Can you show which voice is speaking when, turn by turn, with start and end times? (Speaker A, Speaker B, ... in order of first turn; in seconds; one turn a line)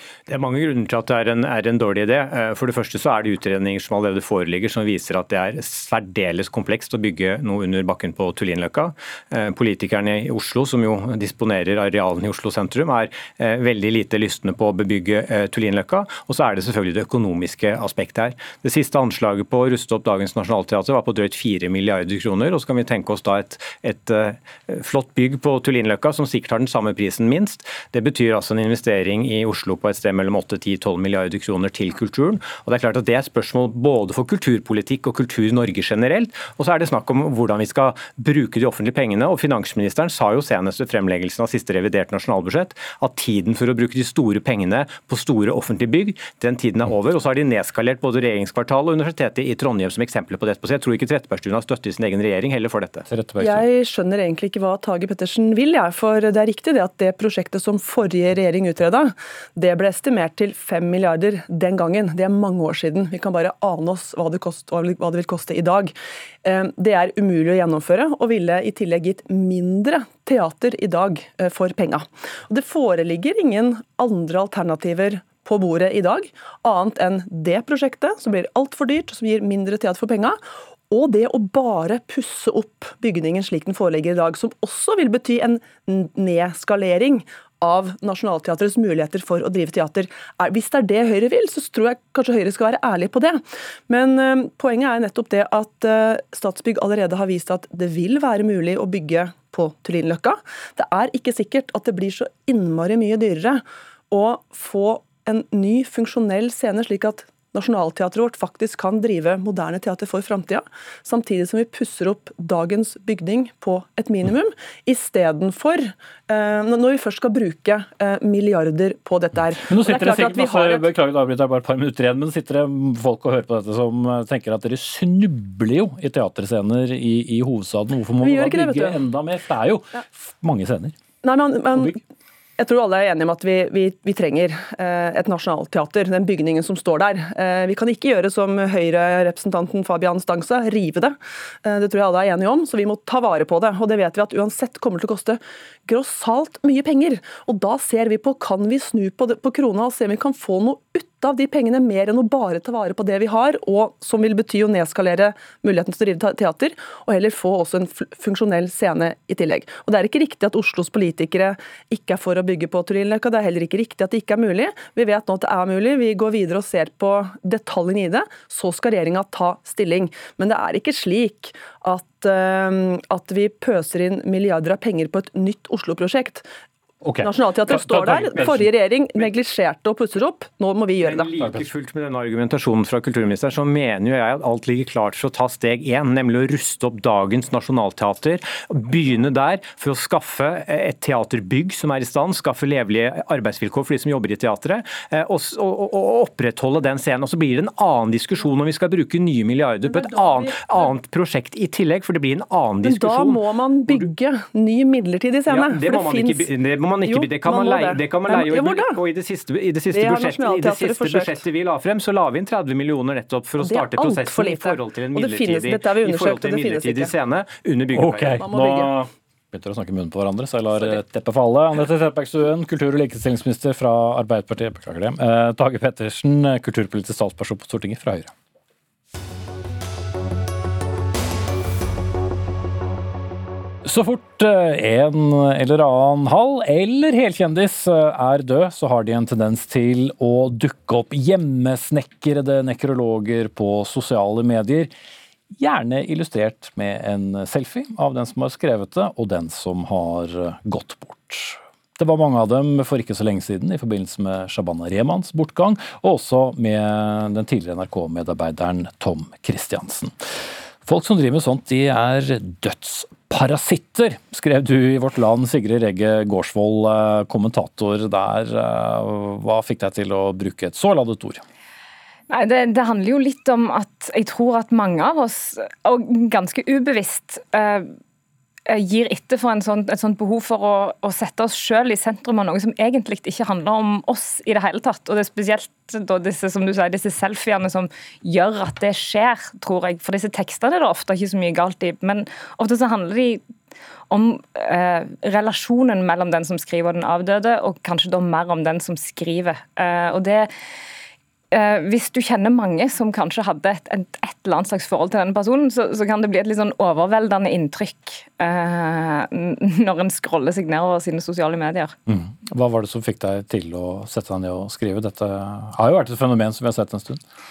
Speaker A: 0.3-53.1
Speaker B: 53.1-53.7
Speaker C: 53.4-120.9
Speaker B: 119.7-130.9
Speaker C: 128.2-129.0
Speaker C: 131.2-132.0
Speaker C: 132.6-176.5
Speaker B: 177.0-178.7
Speaker C: 177.2-181.4
Speaker A: 181.0-204.1
Speaker C: 199.9-200.9
Speaker C: 202.8-206.5
Speaker A: 205.5-218.4
Speaker C: 207.0-209.0
Speaker C: 209.9-211.4
Speaker C: 213.6-217.1
Speaker B: 218.0-228.3
Speaker C: 218.3-219.0
Speaker B: 233.8-244.9
Speaker B: 245.6-260.1
Speaker B: 260.8-271.4
Speaker D: 272.3-277.9
Speaker D: 278.7-293.4
Speaker D: 294.1-300.5
Speaker D: 301.5-312.0
Speaker B: 312.1-317.2